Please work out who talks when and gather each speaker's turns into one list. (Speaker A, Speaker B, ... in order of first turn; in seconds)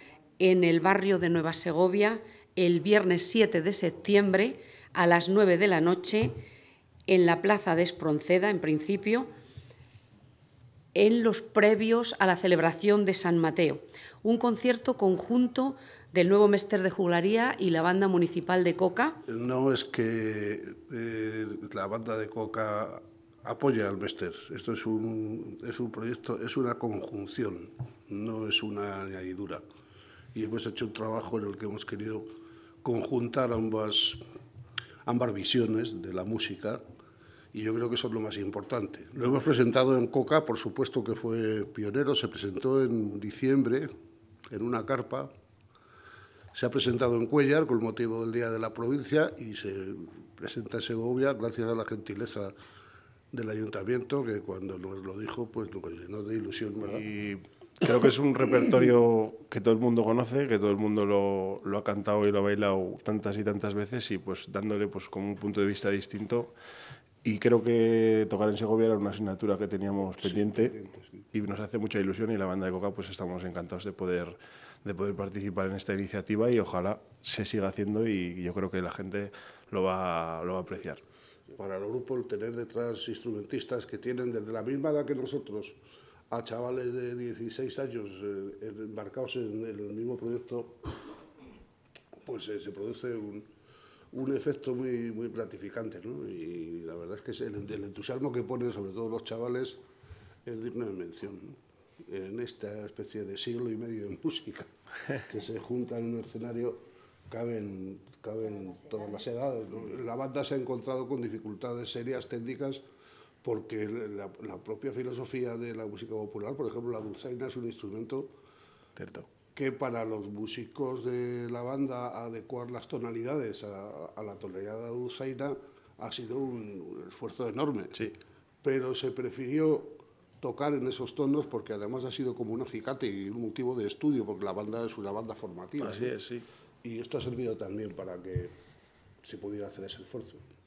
Speaker A: 0.4-6.3, 7.1-9.3, 10.9-19.2
Speaker B: 19.3-29.6, 30.3-32.3, 32.8-34.2, 35.0-36.8, 37.5-43.9, 44.5-45.3, 46.5-52.5, 53.3-57.0, 70.2-71.3, 81.5-85.8, 86.3-90.9, 92.2-93.5, 94.1-99.8, 100.5-112.8, 113.4-118.3, 119.5-128.1, 128.6-136.1, 136.8-138.5, 139.2-140.4
Speaker C: 56.9-66.5, 67.2-70.8, 71.3-81.0, 119.0-119.3, 135.8-136.4